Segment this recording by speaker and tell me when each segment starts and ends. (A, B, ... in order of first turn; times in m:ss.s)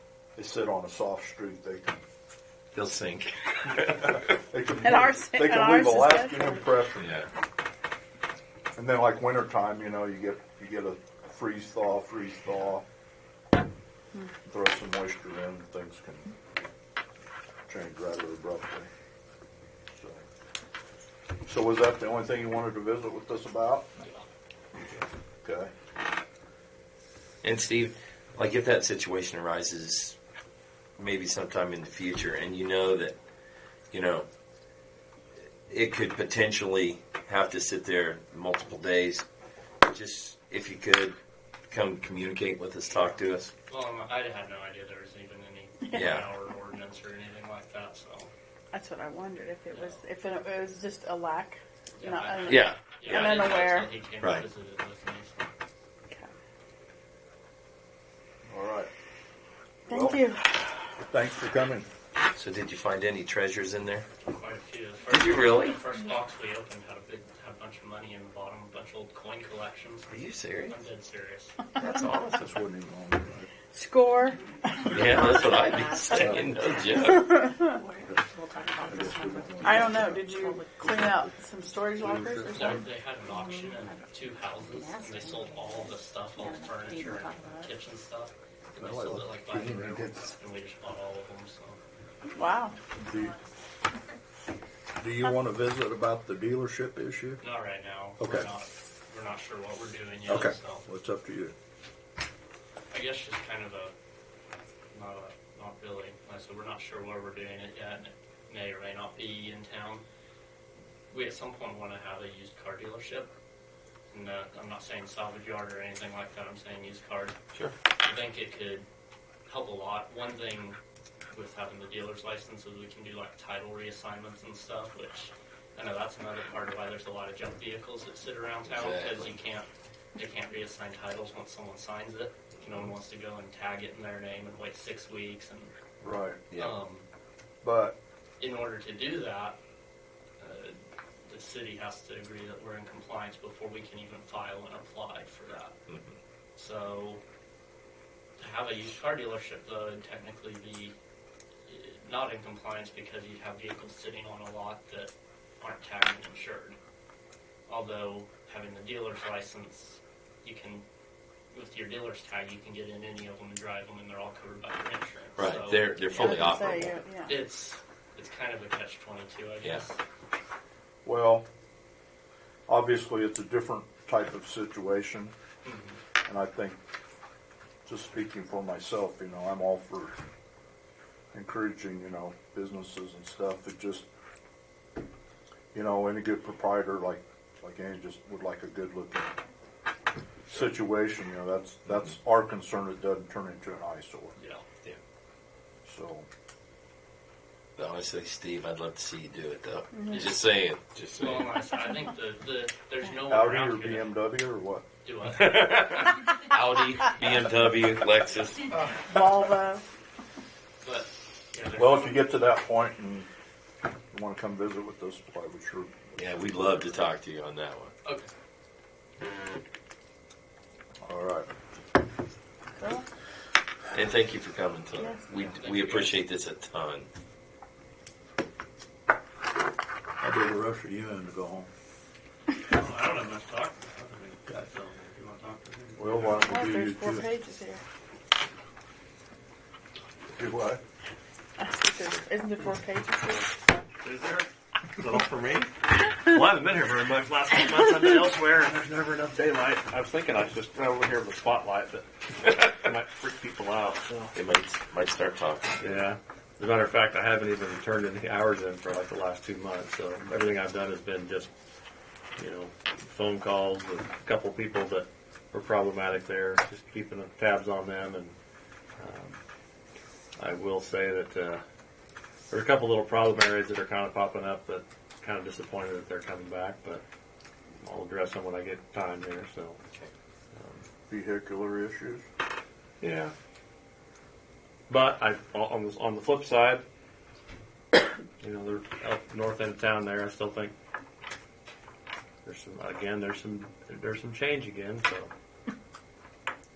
0:00.4-0:02.0 A
0:02.7-0:04.2 B
0:04.5-0:07.1 A
0:04.8-0:06.7 C
0:07.0-0:07.3 B
0:08.8-0:12.8 A
0:14.4-0:16.3 A
0:17.7-0:18.9 A
0:20.0-0:20.2 A
0:21.4-0:24.0 A
0:25.4-0:25.7 A
0:27.4-0:30.2 B
0:31.0-0:33.2 B
0:33.9-0:34.3 B
0:35.7-0:39.2 B
0:39.8-0:41.2 B
0:41.7-0:43.5 B
0:43.7-0:48.3 D
0:45.9-0:46.3 B
0:48.7-0:53.9 C
0:49.7-0:50.0 D
0:52.0-0:55.5 D
0:52.5-0:53.6 B
0:54.2-0:54.4 B
0:58.5-0:58.9 A
0:59.9-1:00.2 A
0:59.9-1:00.8 C
1:01.0-1:01.9 A
1:02.3-1:04.1 B
1:04.2-1:11.7 D
1:05.1-1:05.8 B
1:10.1-1:10.8 B
1:11.8-1:12.6 B
1:12.4-1:13.5 A
1:13.7-1:15.1 C
1:14.9-1:17.4 B
1:14.9-1:15.5 A
1:14.9-1:17.0 E
1:16.1-1:16.5 A
1:17.3-1:17.6 C
1:17.7-1:21.1 E
1:18.8-1:21.3 A
1:19.6-1:22.8 C
1:22.0-1:22.8 A
1:22.5-1:31.8 D
1:23.3-1:24.0 E
1:24.6-1:27.7 E
1:28.8-1:30.3 A
1:32.3-1:32.8 C
1:33.0-1:33.4 A
1:35.0-1:37.4 A
1:37.4-1:40.8 D
1:38.2-1:38.5 A
1:40.3-1:41.5 A
1:42.9-1:43.9 D
1:44.9-1:50.0 D
1:51.1-1:53.3 D
1:54.1-1:57.4 D
1:58.0-1:58.8 D
1:59.4-2:00.8 D
2:01.3-2:15.7 D
2:08.7-2:09.3 B
2:16.0-2:16.4 A
2:16.6-2:17.1 D
2:17.6-2:18.0 A
2:18.4-2:19.6 D
2:20.4-2:25.8 D
2:25.9-2:26.1 B
2:26.6-2:27.2 D
2:28.4-2:30.9 D
2:31.7-2:36.8 D
2:37.7-2:40.8 D
2:41.5-2:46.4 D
2:45.4-2:47.0 B
2:46.1-2:47.4 C
2:47.2-2:50.0 D
2:51.0-2:51.5 A
2:52.7-2:55.3 A
2:55.6-2:56.0 D
2:56.2-2:56.8 A
2:57.8-3:00.2 A
3:01.3-3:04.0 A
3:05.7-3:09.3 A
3:10.5-3:14.3 A
3:14.4-3:14.6 D
3:15.8-3:16.3 A
3:17.8-3:21.5 B
3:21.2-3:24.2 D
3:23.3-3:24.8 A
3:25.0-3:25.7 D
3:25.3-3:28.7 B
3:29.0-3:29.8 C
3:30.8-3:32.2 D
3:31.8-3:33.3 A
3:34.1-3:36.2 A
3:36.2-3:37.9 B
3:38.0-3:38.3 D
3:41.0-3:41.5 A
3:42.8-3:43.0 C
3:43.9-3:47.1 B
3:45.0-3:45.2 C
3:45.3-3:46.2 D
3:50.2-3:51.7 A
3:52.7-3:56.5 D
3:56.0-3:57.3 A
3:56.4-3:57.8 C
4:00.3-4:00.8 A
4:01.6-4:03.5 C
4:04.0-4:14.3 F
4:14.3-4:15.8 B
4:15.8-4:21.5 F
4:22.4-4:28.4 F
4:29.0-4:29.4 F
4:30.4-4:31.6 F
4:32.5-4:37.0 F
4:37.8-4:39.8 F
4:40.6-4:40.8 F
4:41.1-4:42.2 A
4:43.0-4:43.3 F
4:44.9-4:46.8 F
4:48.4-4:50.7 F
4:52.4-4:55.3 F